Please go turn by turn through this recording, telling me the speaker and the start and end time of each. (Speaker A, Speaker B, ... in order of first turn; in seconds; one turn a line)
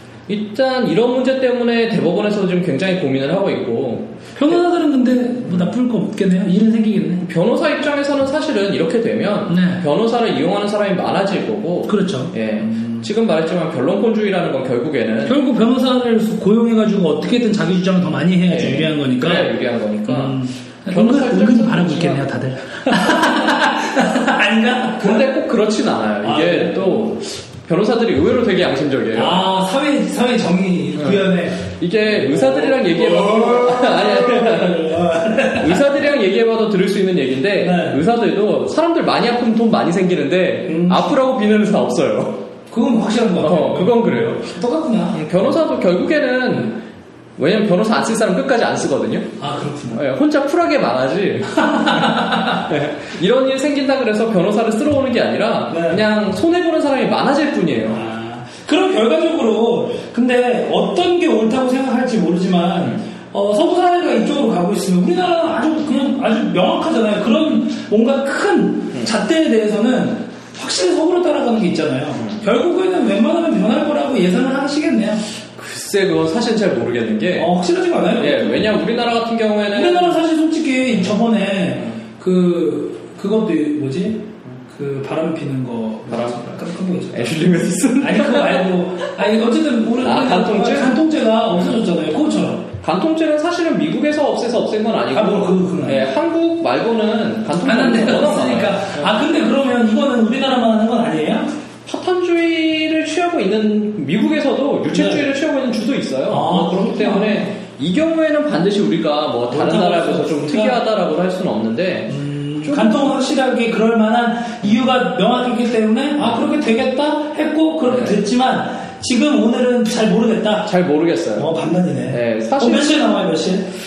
Speaker A: 0.3-4.6
Speaker B: 4.3-7.3
Speaker A: 5.5-5.7
Speaker A: 7.2-15.4
Speaker B: 9.5-9.9
Speaker B: 11.9-13.1
Speaker B: 15.2-25.3
Speaker A: 18.5-22.3
Speaker A: 25.0-29.4
Speaker B: 26.2-27.2
Speaker B: 29.1-35.9
Speaker A: 31.0-42.4
Speaker B: 37.6-38.0
Speaker B: 40.7-41.2
Speaker B: 42.7-45.2
Speaker A: 43.4-44.6
Speaker A: 45.1-46.8
Speaker A: 47.4-49.3
Speaker B: 49.4-50.0
Speaker A: 49.9-58.0
Speaker B: 51.6-52.6
Speaker B: 55.7-56.0
Speaker B: 57.9-75.2
Speaker A: 72.2-72.5
Speaker A: 75.6-77.5
Speaker B: 77.3-78.7
Speaker A: 78.2-80.2
Speaker B: 79.7-92.7
Speaker A: 80.9-82.0
Speaker A: 86.1-89.3
Speaker A: 90.0-91.8
Speaker A: 92.8-99.2
Speaker B: 95.1-96.1
Speaker B: 97.6-101.5
Speaker A: 101.9-113.2
Speaker B: 104.9-105.3
Speaker B: 106.3-107.4
Speaker B: 109.5-110.8
Speaker B: 112.1-120.7
Speaker A: 116.2-116.5
Speaker A: 117.8-118.3
Speaker A: 120.7-121.5
Speaker B: 121.4-123.7
Speaker A: 122.1-123.0